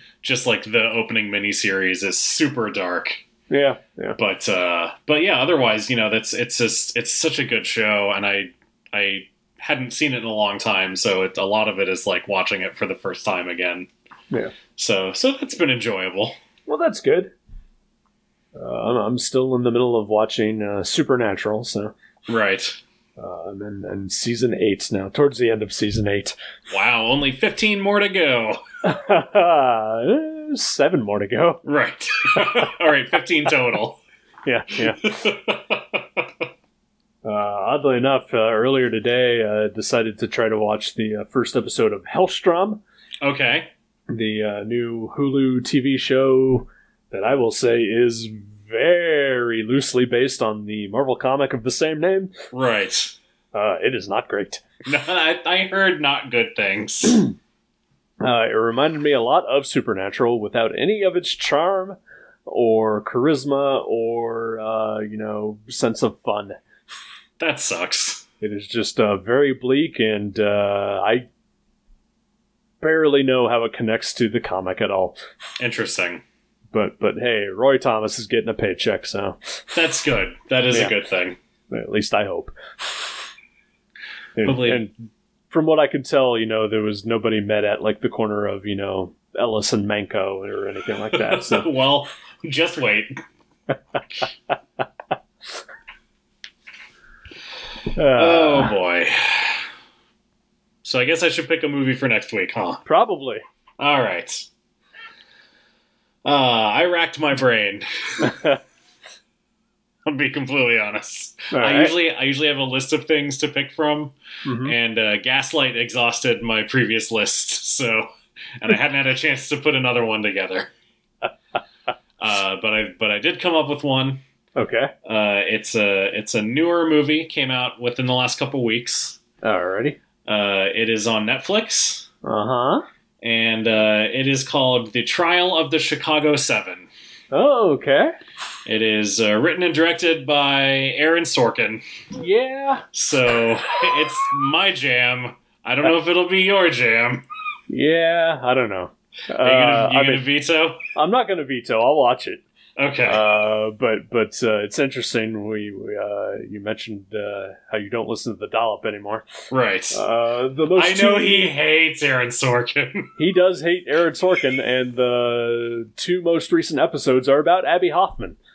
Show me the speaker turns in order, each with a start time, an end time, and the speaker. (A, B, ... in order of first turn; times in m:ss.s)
0:00.2-0:03.2 A
0:03.5-0:04.2 B
0:04.2-0:13.9 A
0:14.8-0:16.4 A
0:16.7-0:17.3 B
0:18.6-0:21.9 B
0:22.3-0:22.8 A
0:23.2-0:26.3 B
0:26.7-0:28.6 A
0:28.8-0:31.6 B
0:31.6-0:34.0 A
0:34.4-0:35.1 B
0:34.8-0:36.3 A
0:37.2-0:42.8 B
0:43.2-0:43.7 A
0:44.1-0:52.3 B
0:52.5-0:53.1 A
0:53.5-0:54.6 B
0:54.8-0:57.2 A
0:58.2-1:06.6 B
1:07.4-1:08.2 A
1:08.4-1:11.3 B
1:12.8-1:15.2 B
1:15.6-1:16.2 A
1:16.7-1:19.6 B
1:19.7-1:21.4 A
1:21.7-1:23.0 B
1:24.4-1:24.9 B
1:24.4-1:24.8 A
1:25.5-1:31.7 B
1:31.1-1:33.1 A
1:37.9-1:38.7 B
1:38.1-1:39.6 A
1:40.8-1:42.8 A
1:42.8-1:43.4 B
1:43.8-1:44.5 A
1:46.2-1:48.4 A
1:48.2-1:48.6 B
1:50.0-2:00.7 A
1:51.5-1:51.9 B
1:54.4-1:54.7 B
2:02.2-2:04.2 A
2:04.6-2:04.9 B
2:05.0-2:09.2 A
2:09.4-2:10.0 B
2:10.2-2:12.1 A
2:12.2-2:12.8 B
2:13.2-2:16.9 A
2:17.3-2:18.1 B
2:18.6-2:21.8 A
2:22.2-2:22.8 B
2:22.9-2:27.2 A
2:27.7-2:30.2 B
2:29.4-2:30.8 A
2:30.9-2:32.4 B
2:32.8-2:33.2 A
2:33.0-2:39.3 B
2:39.5-2:40.0 A
2:39.9-2:41.6 B
2:40.7-2:43.1 A
2:43.2-2:48.4 B